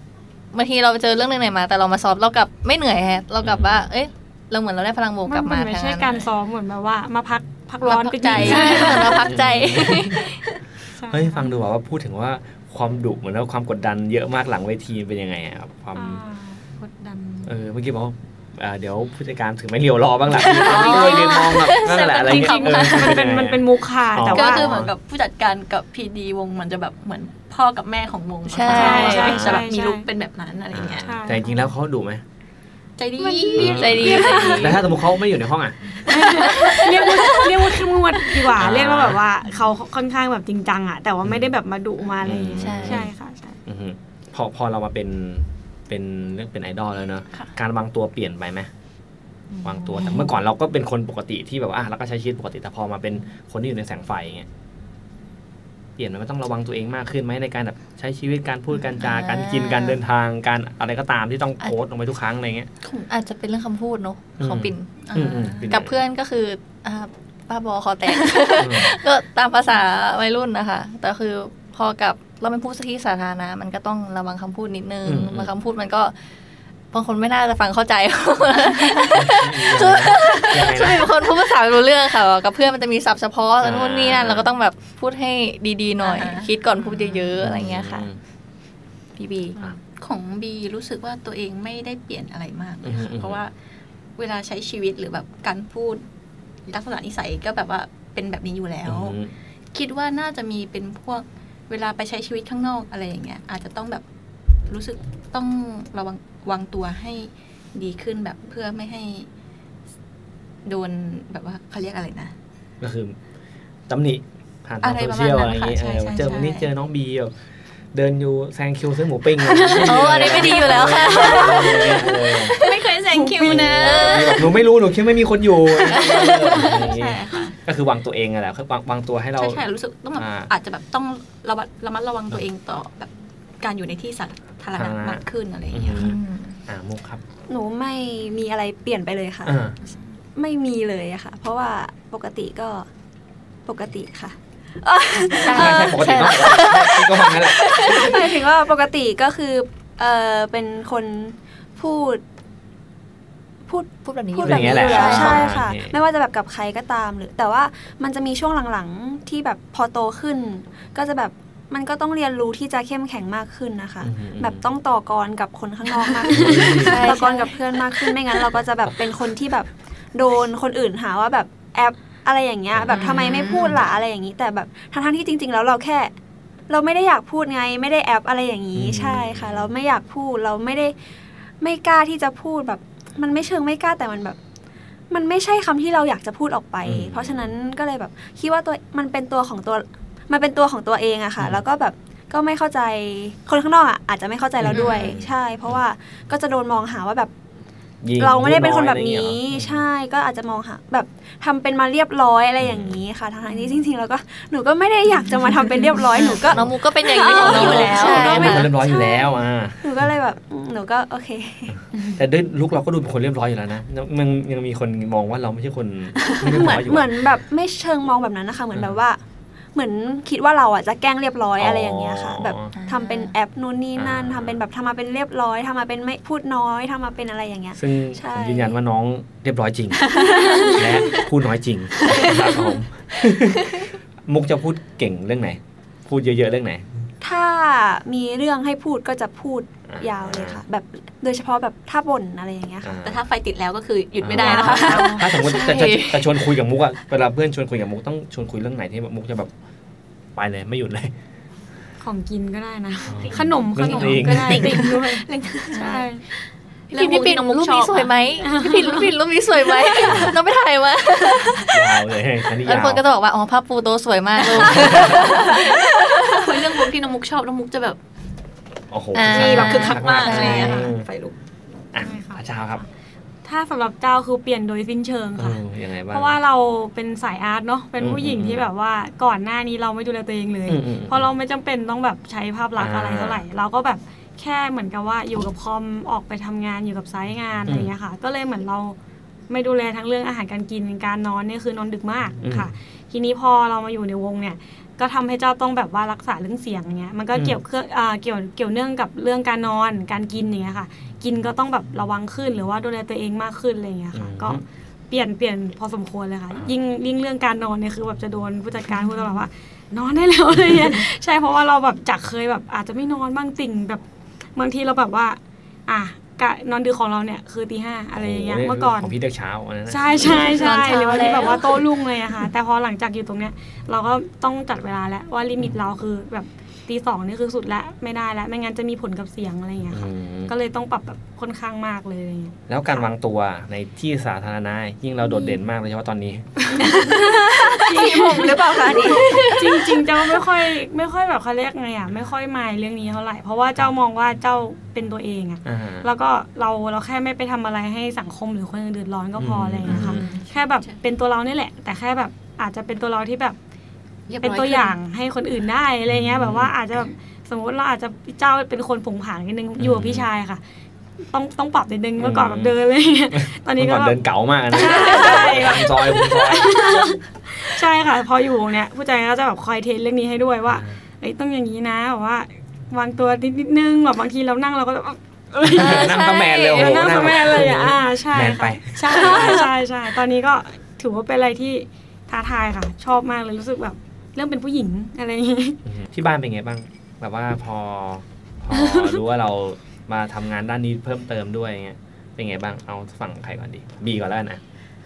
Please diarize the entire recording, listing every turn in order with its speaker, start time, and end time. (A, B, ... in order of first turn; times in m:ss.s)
0:00.5-0:06.2 A
0:03.4-0:03.9 B
0:05.2-0:09.2 C
0:07.8-0:10.4 A
0:08.3-0:10.2 B
0:08.4-0:09.2 D
0:11.0-0:11.5 C
0:11.1-0:16.2 B
0:15.9-0:17.2 C
0:17.0-0:17.5 D
0:17.4-0:24.9 B
0:20.4-0:22.0 A
0:20.5-0:24.7 C
0:20.6-0:23.2 D
0:24.2-0:31.1 D
0:28.5-0:29.4 A
0:28.7-0:30.1 C
0:28.7-0:29.6 B
0:30.7-0:32.2 B
0:31.0-0:31.6 C
0:33.0-0:35.0 D
0:33.2-0:33.8 C
0:33.5-0:36.4 B
0:33.6-0:34.8 A
0:36.1-0:43.6 C
0:36.4-0:36.9 A
0:36.8-0:37.3 D
0:38.6-0:39.2 B
0:41.2-0:41.5 B
0:42.2-0:43.1 B
0:42.6-0:43.1 A
0:43.6-0:48.7 B
0:49.6-0:54.5 B
0:50.0-0:50.3 C
0:56.0-1:02.7 B
0:59.0-1:00.0 A
1:02.8-1:03.1 D
1:03.1-1:04.9 A
1:04.4-1:06.0 B
1:05.0-1:05.8 D
1:05.7-1:16.1 A
1:08.6-1:08.9 B
1:15.0-1:15.5 B
1:16.9-1:28.1 A
1:19.1-1:21.1 B
1:23.6-1:24.5 B
1:26.0-1:27.4 D
1:27.4-1:28.2 B
1:29.2-1:29.6 A
1:29.6-1:33.5 D
1:32.8-1:33.4 B
1:34.2-1:36.0 D
1:36.7-1:39.2 D
1:38.8-1:39.3 B
1:39.7-1:44.0 D
1:44.6-1:49.3 D
1:50.6-1:52.3 D
1:52.8-1:53.2 B
1:53.9-1:57.3 B
1:54.8-1:56.7 D
1:57.9-2:02.6 B
1:59.4-2:02.1 C
1:59.8-2:02.8 A
2:02.6-2:04.5 D
2:03.1-2:03.7 C
2:03.4-2:09.6 B
2:03.7-2:04.6 A
2:05.9-2:06.7 A
2:05.9-2:07.6 D
2:09.4-2:16.1 D
2:10.2-2:10.5 B
2:14.8-2:17.2 B
2:16.0-2:16.6 A
2:17.5-2:19.6 E
2:19.4-2:19.8 B
2:20.4-2:22.9 E
2:23.6-2:26.7 E
2:25.4-2:28.4 A
2:25.4-2:28.2 B
2:27.8-2:32.2 E
2:33.6-2:56.1 E
2:34.0-2:35.5 A
2:34.4-2:36.0 B
2:44.0-2:44.6 B
2:46.3-2:47.2 B
2:46.4-2:48.1 A
2:52.7-2:53.2 B
2:52.9-2:53.8 D
2:56.7-3:01.0 E
2:58.7-2:59.7 B
3:01.6-3:04.4 E
3:05.1-3:17.3 E
3:06.8-3:07.5 B
3:14.6-3:15.8 B
3:14.7-3:15.1 D
3:18.0-3:19.8 B
3:18.2-3:31.7 E
3:22.6-3:23.0 B
3:26.0-3:26.5 D
3:26.4-3:26.7 B
3:26.4-3:28.8 A
3:27.0-3:28.6 D
3:27.4-3:30.1 B
3:32.1-3:37.3 B
3:36.2-3:36.7 D
3:36.4-3:39.2 E
3:38.7-3:39.0 B
3:39.7-3:48.8 E
3:41.6-3:42.7 B
3:42.8-3:43.3 A
3:44.0-3:44.6 B
3:47.8-3:56.8 B
3:50.0-3:51.2 D
3:50.3-3:50.8 E
3:52.0-3:52.6 D
3:57.2-4:03.0 E
3:59.9-4:00.6 B
4:02.8-4:03.2 B
4:03.0-4:05.2 D
4:04.2-4:09.5 B
4:04.3-4:05.2 C
4:05.1-4:06.3 A
4:10.3-4:11.1 B
4:12.0-4:16.2 C
4:13.1-4:14.9 B
4:13.2-4:16.1 D
4:16.9-4:18.1 D
4:16.9-4:21.9 A
4:18.4-4:19.1 C
4:20.0-4:20.3 B
4:21.6-4:23.0 B
4:22.6-4:26.5 A
4:24.4-4:28.0 D
4:24.5-4:25.4 B
4:28.9-4:31.0 B
4:29.1-4:30.8 A
4:29.2-4:31.4 D
4:30.5-4:30.9 C
4:31.9-4:32.8 B
4:32.0-4:32.4 C
4:33.4-4:49.0 C
4:35.4-4:36.4 B
4:38.0-4:38.7 B
4:40.7-4:41.3 B
4:42.8-4:43.4 B
4:47.7-4:47.9 B
4:49.5-5:04.6 C
4:52.4-4:52.7 B
5:04.1-5:04.6 B
5:05.1-5:14.0 C
5:14.6-5:19.1 C
5:18.2-5:20.8 B
5:19.9-5:32.6 C
5:20.2-5:21.9 A
5:29.9-5:30.5 B
5:32.7-5:37.1 B
5:35.2-5:35.6 C
5:36.7-5:53.6 C
5:36.9-5:39.4 E
5:39.0-5:39.9 A
5:45.6-5:46.1 B
5:49.4-5:50.3 B
5:49.9-5:50.9 D
5:54.3-5:54.9 D
5:54.4-6:00.6 C
5:56.1-5:56.7 B
5:59.8-6:00.3 B
6:01.3-6:04.2 C
6:02.2-6:02.7 B
6:03.8-6:07.1 B
6:04.7-6:25.8 C
6:10.7-6:11.0 B
6:15.6-6:19.7 B
6:15.7-6:17.2 A
6:25.9-6:34.6 B
6:28.7-6:29.2 C